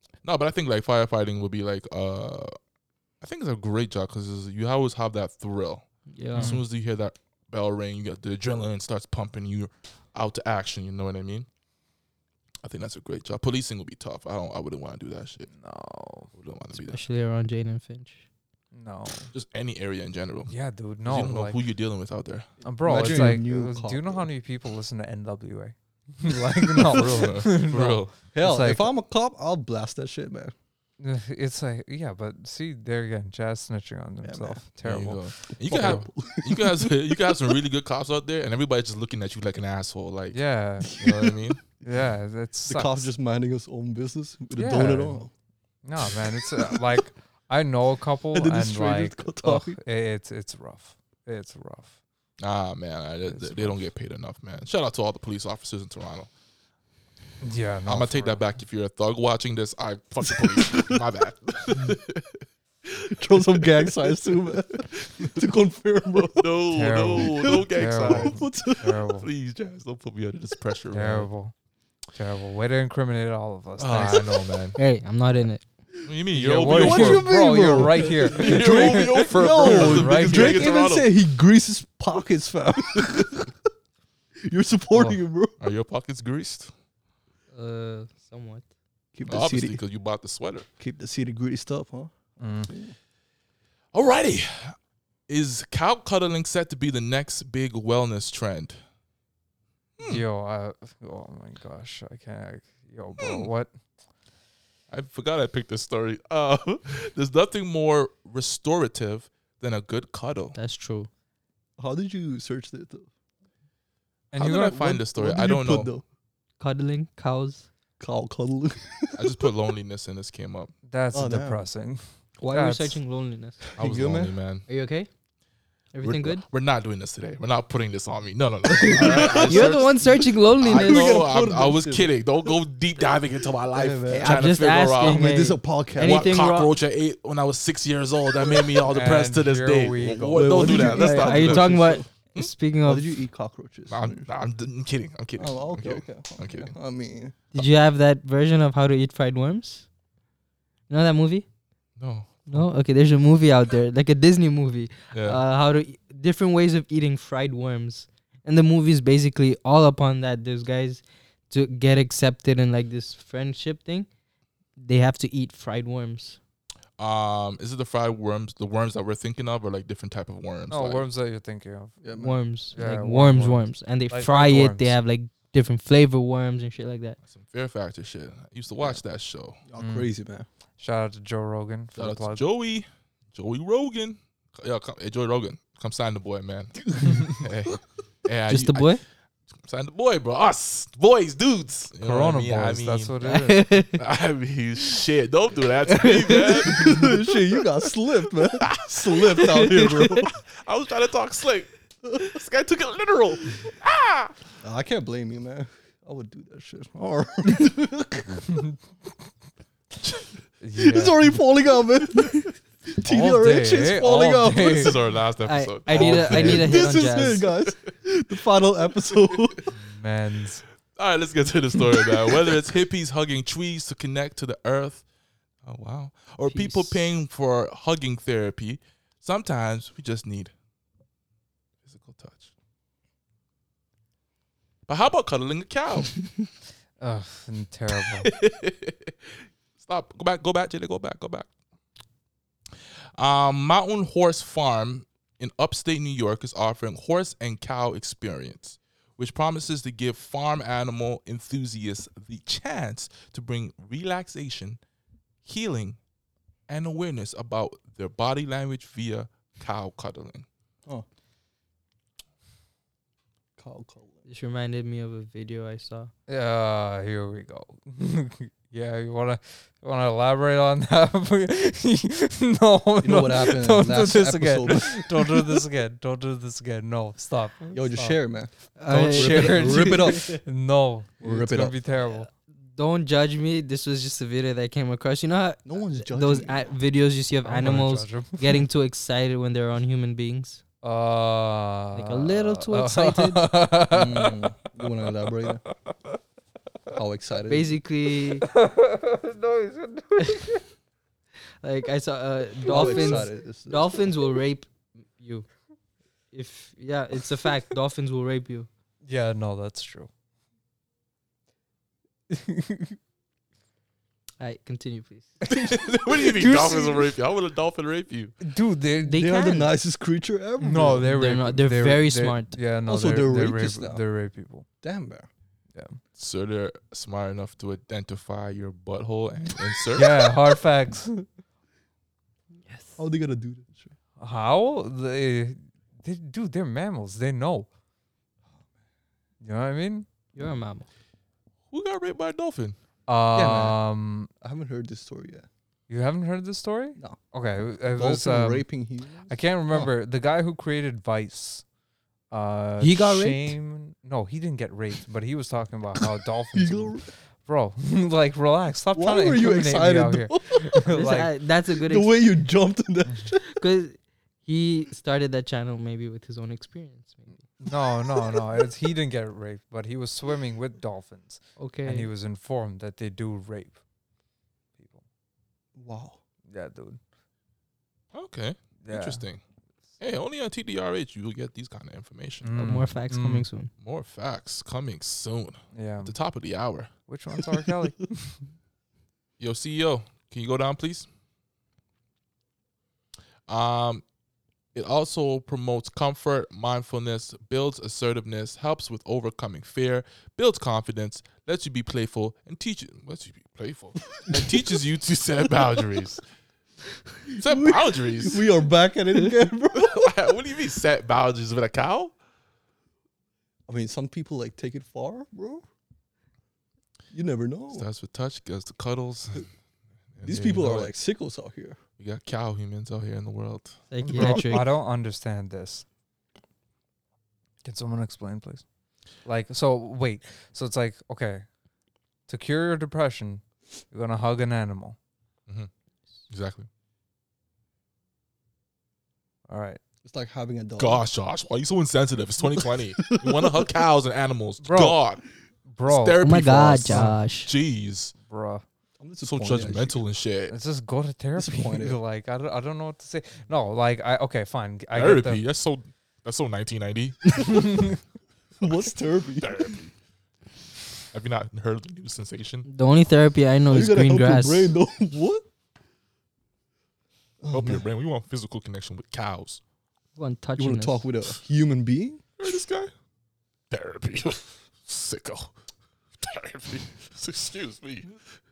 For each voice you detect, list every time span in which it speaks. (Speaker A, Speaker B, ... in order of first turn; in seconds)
Speaker A: 0.2-2.6, 3.2-11.5, 12.6-15.5, 16.3-17.0, 19.3-20.5, 21.0-22.5, 26.8-28.1, 34.8-40.4, 40.9-41.6, 52.4-56.3, 57.9-62.4, 63.4-64.4, 66.1-68.4, 69.1-71.3, 73.8-74.8, 76.0-81.1, 85.6-86.7, 89.3-90.7, 93.9-94.8, 95.3-98.8, 100.0-100.2, 103.2-103.5, 104.9-110.5, 114.3-115.9, 119.2-120.7, 123.8-124.6, 126.0-130.0, 130.6-135.2, 136.0-142.5, 143.9-146.7, 152.0-152.6, 155.1-155.4, 167.0-171.1, 177.2-179.6, 181.9-189.0, 189.6-193.2, 194.0-197.2, 198.4-199.6, 200.2-204.3, 214.5-216.8, 220.9-225.0, 225.6-230.5, 231.8-232.5, 234.9-236.2, 238.0-241.5, 243.2-254.8, 255.4-256.0, 256.7-260.4, 315.5-318.4, 326.1-330.3, 341.7-342.8, 378.1-379.4, 380.0-382.6, 383.8-386.9, 389.4-391.1, 393.5-394.0, 394.7-406.2, 407.4-408.5, 409.8-412.1, 417.7-419.5, 420.1-420.9, 422.0-424.6, 436.3-436.7, 440.8-445.2, 445.9-448.1, 449.2-450.5, 454.9-457.9, 459.4-459.9, 461.1-462.7, 467.5-469.6, 472.4-472.9, 473.7-475.5, 476.2-478.1
Speaker B: 6.1-6.6, 16.7-18.2, 74.8-75.6, 87.5-88.6, 110.5-111.1, 116.6-117.7, 122.4-123.6, 124.7-125.1, 125.9-126.4, 128.9-131.3, 134.1-136.7, 140.6-143.2, 147.5-149.9, 150.9-151.4, 152.5-164.1, 164.8-166.4, 172.1-177.2, 188.5-189.0, 193.2-194.0, 195.9-197.0, 199.3-200.3, 215.4-217.5, 226.5-226.9, 264.3-266.1, 278.8-280.4, 282.7-290.6, 291.9-293.5, 297.5-298.5, 301.6-305.5, 306.3-308.7, 314.4-315.4, 319.1-319.7, 321.1-322.6, 332.6-333.0, 340.3-340.9, 352.8-353.5, 360.9-362.4, 363.4-367.5, 371.6-372.1, 382.6-383.7, 423.9-424.7, 446.2-447.5, 462.6-464.7, 470.1-471.1
Speaker C: 6.3-6.6, 15.5-16.3, 18.7-19.3, 20.5-21.6, 22.6-28.9, 31.0-36.1, 40.3-43.1, 44.5-45.2, 45.8-52.0, 53.3-53.8, 57.4-58.4, 66.7-69.3, 70.9-71.5, 72.1-74.7, 76.3-80.8, 84.9-85.2, 92.4-92.7, 100.0-103.7, 114.3-115.0, 120.9-123.0, 138.9-140.7, 170.7-172.0, 172.7-174.9, 179.8-180.1, 180.8-182.4, 192.0-193.7, 210.6-211.3, 213.0-214.9, 215.9-216.7, 219.8-220.6, 237.0-238.3, 266.3-278.2, 278.9-282.3, 287.4-288.6, 290.8-294.4, 298.4-300.6, 302.7-303.2, 309.0-310.1, 312.3-312.9, 315.4-317.1, 318.4-319.5, 320.6-324.6, 325.7-326.0, 329.9-331.2, 334.2-337.7, 339.4-340.1, 343.1-344.3, 345.9-348.7, 349.3-351.6, 352.3-361.3, 367.6-373.8, 376.5-377.0, 378.8-379.2, 382.4-383.5, 385.7-386.1, 387.1-388.4, 424.1-425.9, 427.6-428.6, 429.2-431.5, 432.3-435.0, 439.5-439.8, 444.6-445.0, 445.7-446.2, 446.9-447.2, 448.2-448.6, 450.5-455.4
Speaker D: 22.8-24.3, 26.9-27.2, 28.3-30.5, 34.2-34.6, 35.6-37.5, 40.9-41.3, 42.7-45.3, 46.1-47.0, 48.3-49.8, 60.2-61.0, 62.9-69.0, 76.6-83.5, 84.4-85.5, 89.1-89.8, 90.8-92.1, 92.7-92.9, 111.8-113.1, 114.9-116.0, 118.0-119.5, 121.1-121.6, 123.8-124.3, 128.7-129.9, 130.6-132.5, 133.7-134.4, 135.0-136.4, 140.3-142.1, 142.8-144.3, 145.3-147.3, 172.0-172.4, 179.7-180.5, 186.9-187.3, 196.5-200.3, 204.6-208.6, 210.8-215.0, 216.0-219.6, 221.9-222.5, 263.6-264.2, 273.0-275.6, 277.7-280.4, 281.2-281.8, 285.6-286.6, 293.9-295.6, 296.9-297.7, 302.7-304.0, 319.1-321.1, 322.9-324.0, 324.8-325.3, 333.0-333.9, 343.3-343.8, 344.4-345.5, 347.9-349.9, 356.5-357.1, 358.9-360.9, 361.8-363.4, 375.8-376.2, 404.3-404.7, 407.3-410.3, 413.7-415.6, 417.1-417.9, 420.2-421.8, 440.0-441.0, 442.5-443.7, 449.0-450.0, 451.4-452.0, 458.6-459.8, 463.7-465.4, 467.4-467.8, 470.6-472.2